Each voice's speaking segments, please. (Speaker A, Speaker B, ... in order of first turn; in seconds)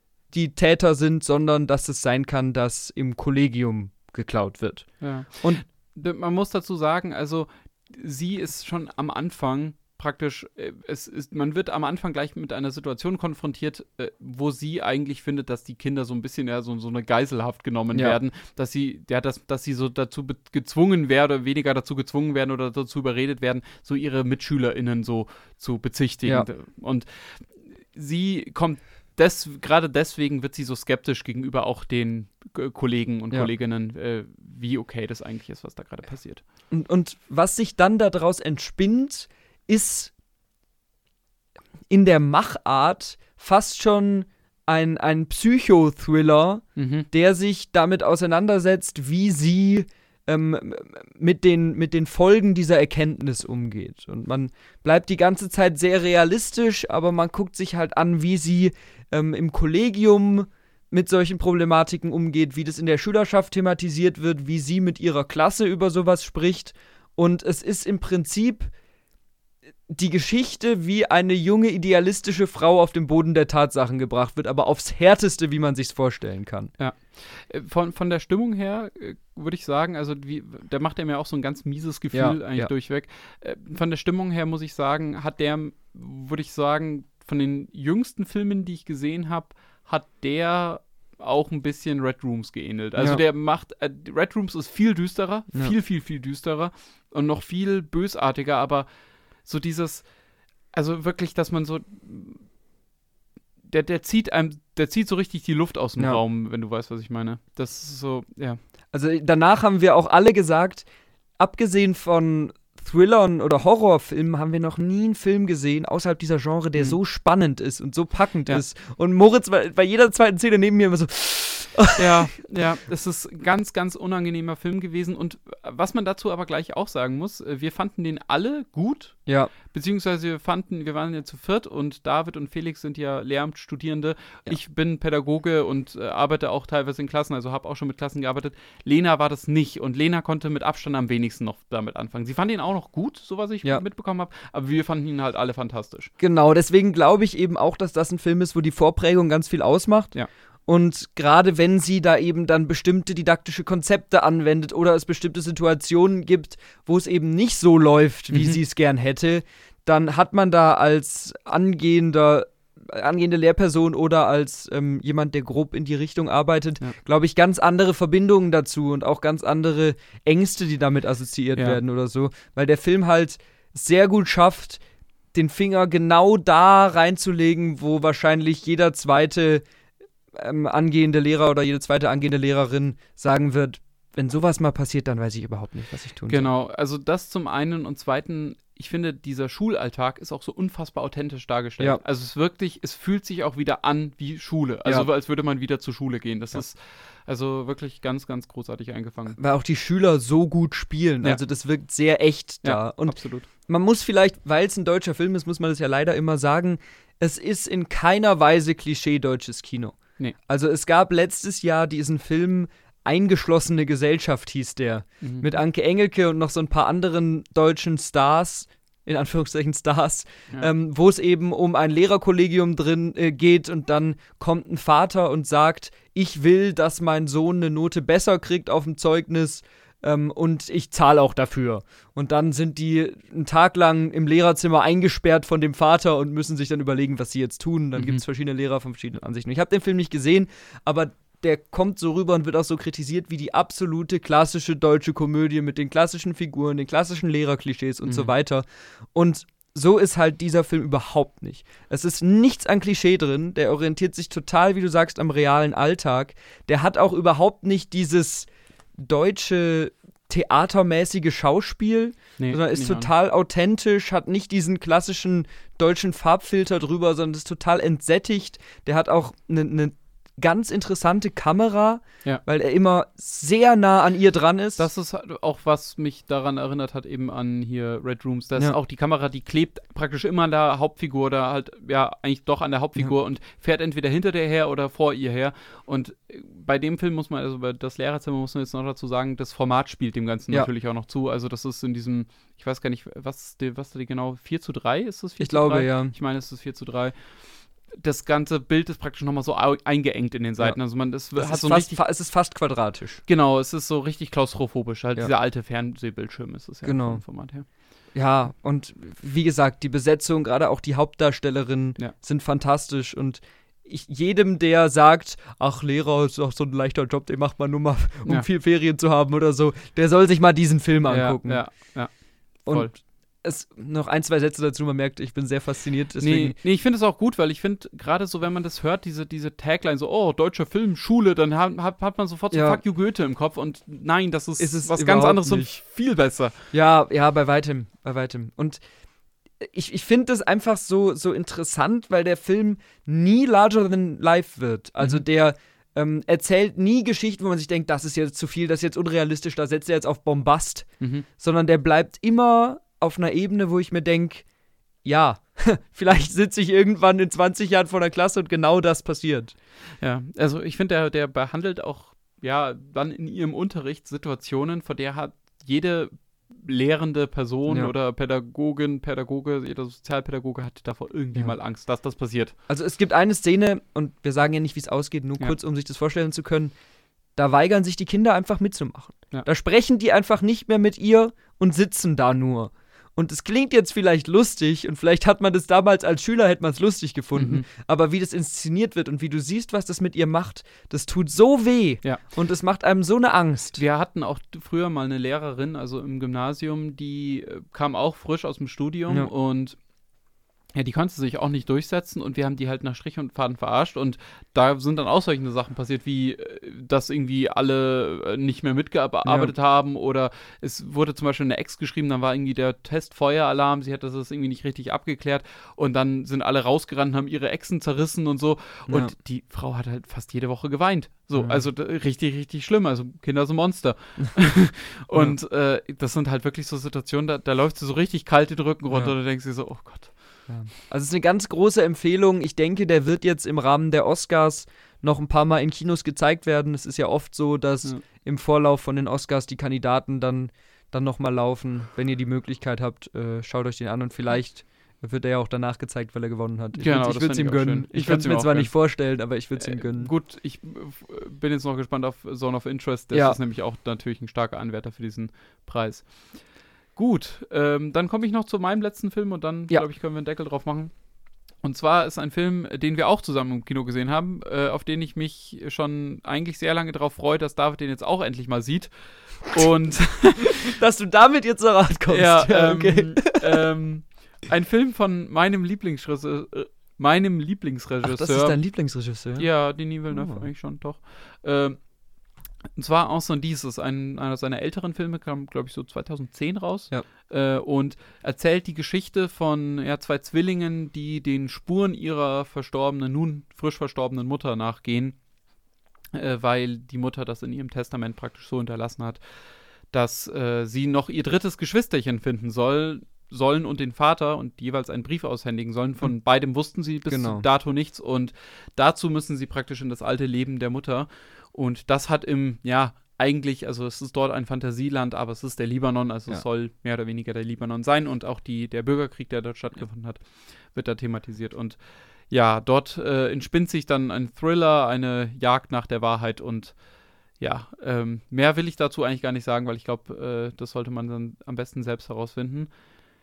Speaker A: 0.3-4.9, 36.7-40.1, 41.9-68.7, 69.9-76.7, 82.1-82.7, 93.0-93.2, 108.9-110.8, 111.4-122.4, 129.2-129.5, 146.2-150.1, 150.7-174.8, 175.3-179.6, 180.3-186.5, 199.4-274.9, 295.4-296.1, 301.4-303.2, 306.8-307.2, 308.1-321.7, 322.6-326.6, 332.5-332.8, 334.6-335.7, 336.7-338.8, 339.6-350.9, 351.4-354.4, 355.0-359.5, 372.7-376.7, 377.4-393.8, 409.2-409.5, 418.9-419.1, 421.4-421.6, 430.5-450.1, 453.1-453.4, 470.6-473.6, 478.0-479.5, 480.1-480.4, 507.1-507.4
Speaker B: 5.0-36.4, 46.8-47.1, 76.8-98.9, 99.4-100.1, 100.7-102.5, 103.6-108.6, 122.0-129.2, 129.7-146.1, 158.3-158.6, 186.3-199.4, 202.6-203.4, 215.2-215.5, 262.4-263.1, 274.8-297.2, 297.9-302.0, 303.3-307.6, 321.1-322.1, 322.7-322.9, 326.2-336.6, 351.0-351.2, 360.0-372.5, 387.3-387.6, 393.8-399.8, 400.7-430.1, 446.8-448.7, 449.6-456.1, 456.9-460.9, 461.6-470.6, 472.1-478.6, 479.4-481.8, 482.7-495.2, 496.1-499.2, 499.9-521.8, 522.3-526.8, 527.4-532.7